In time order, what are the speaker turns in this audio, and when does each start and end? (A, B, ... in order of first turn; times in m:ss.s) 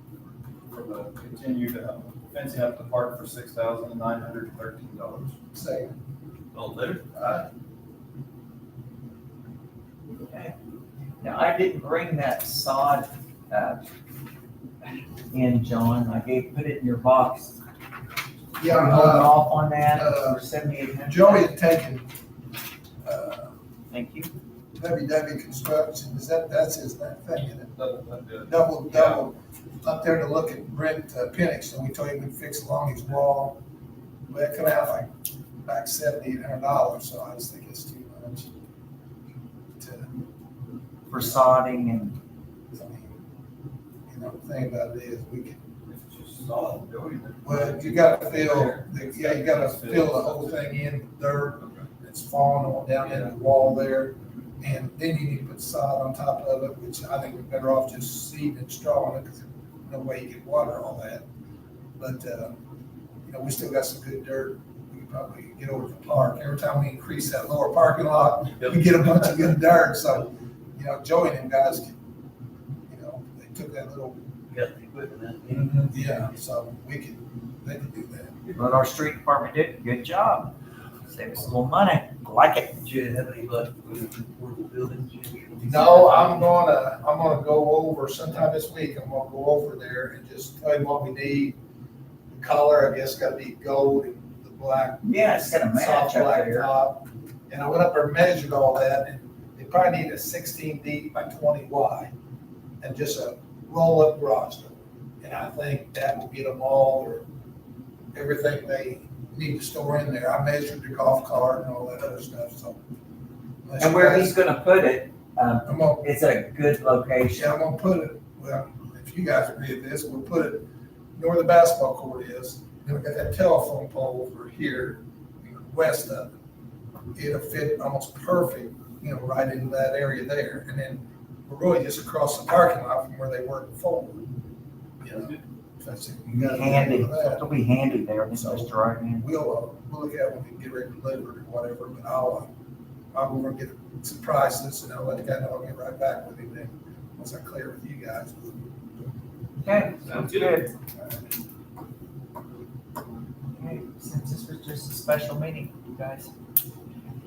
0:00.7-0:05.3 A
0:05.5-0:05.9 B
0:06.5-0:07.0 C
0:07.1-0:07.4 B
0:10.2-0:10.5 D
0:11.2-0:13.8 D
0:15.3-0:17.6 D
0:18.6-0:20.4 B
0:18.6-0:21.5 D
0:21.0-0:22.1 B
0:23.0-0:23.5 B
0:23.9-0:24.3 D
0:24.8-0:27.7 B
0:27.7-0:29.3 A
0:28.4-0:33.6 B
0:34.3-0:35.1 B
0:35.6-0:38.5 B
0:39.8-0:40.1 B
0:41.1-0:42.2 D
0:41.1-0:41.4 B
0:42.7-0:43.1 B
0:44.1-0:45.6 B
0:45.9-0:50.7 A
0:47.4-1:01.2 B
0:51.6-0:51.8 A
0:53.0-0:53.3 A
1:02.0-1:02.6 B
1:03.2-1:11.9 B
1:08.5-1:09.6 C
1:12.9-1:14.2 B
1:14.5-1:16.0 C
1:15.5-1:18.5 B
1:18.5-1:20.5 D
1:21.1-1:22.8 D
1:22.8-1:26.4 C
1:25.6-1:31.6 B
1:32.3-1:42.1 B
1:35.0-1:36.7 D
1:42.8-1:47.3 B
1:48.1-1:52.8 B
1:53.6-1:54.4 B
1:53.8-1:57.6 D
1:55.6-1:56.0 B
1:57.3-2:06.3 B
2:07.1-2:14.3 B
2:15.0-2:17.5 B
2:16.3-2:19.2 D
2:18.3-2:22.5 B
2:23.1-2:28.6 B
2:29.6-2:30.7 D
2:33.5-2:36.3 D